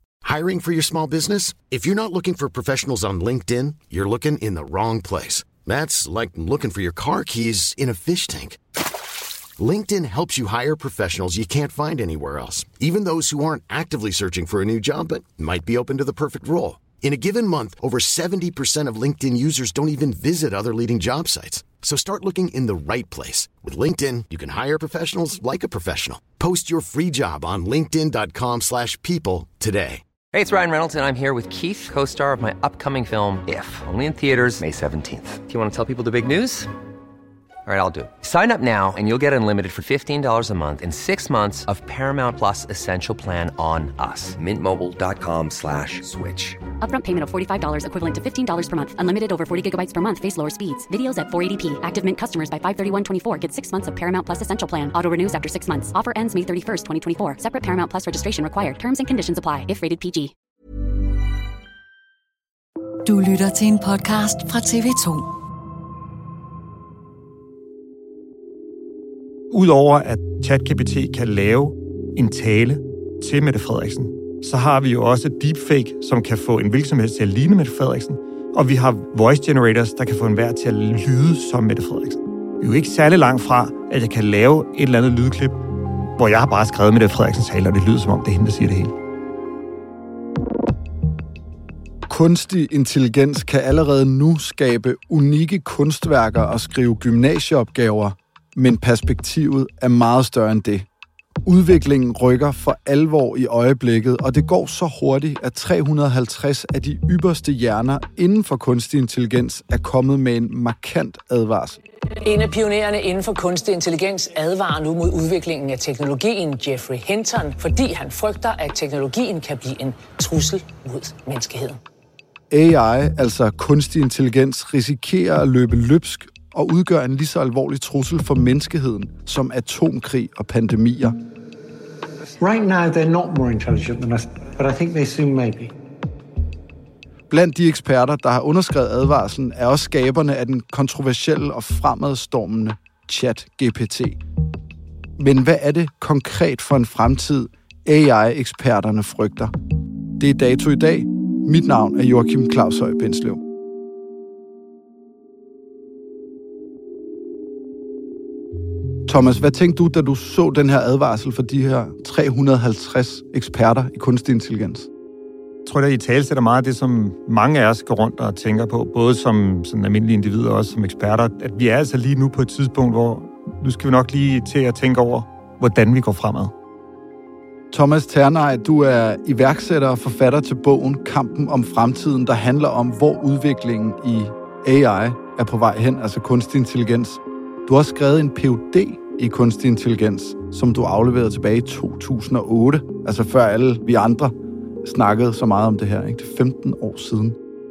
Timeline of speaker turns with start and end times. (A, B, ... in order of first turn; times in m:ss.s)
0:00.2-0:08.6 A
0:09.6-0:30.0 A
0:30.3-0:36.7 B
0:37.7-0:46.6 B
0:46.8-1:00.3 C
1:03.1-1:05.3 D
1:09.5-1:25.6 E
1:26.2-1:28.9 E
1:32.1-1:40.9 F
1:41.4-1:51.8 F
1:52.2-2:01.8 G
2:02.5-2:11.2 F
2:12.4-2:15.7 H
2:17.3-2:24.2 F
2:25.2-2:29.5 F
2:30.2-2:33.4 F
2:39.1-2:44.9 F
2:45.6-2:56.5 E
2:57.7-3:17.4 F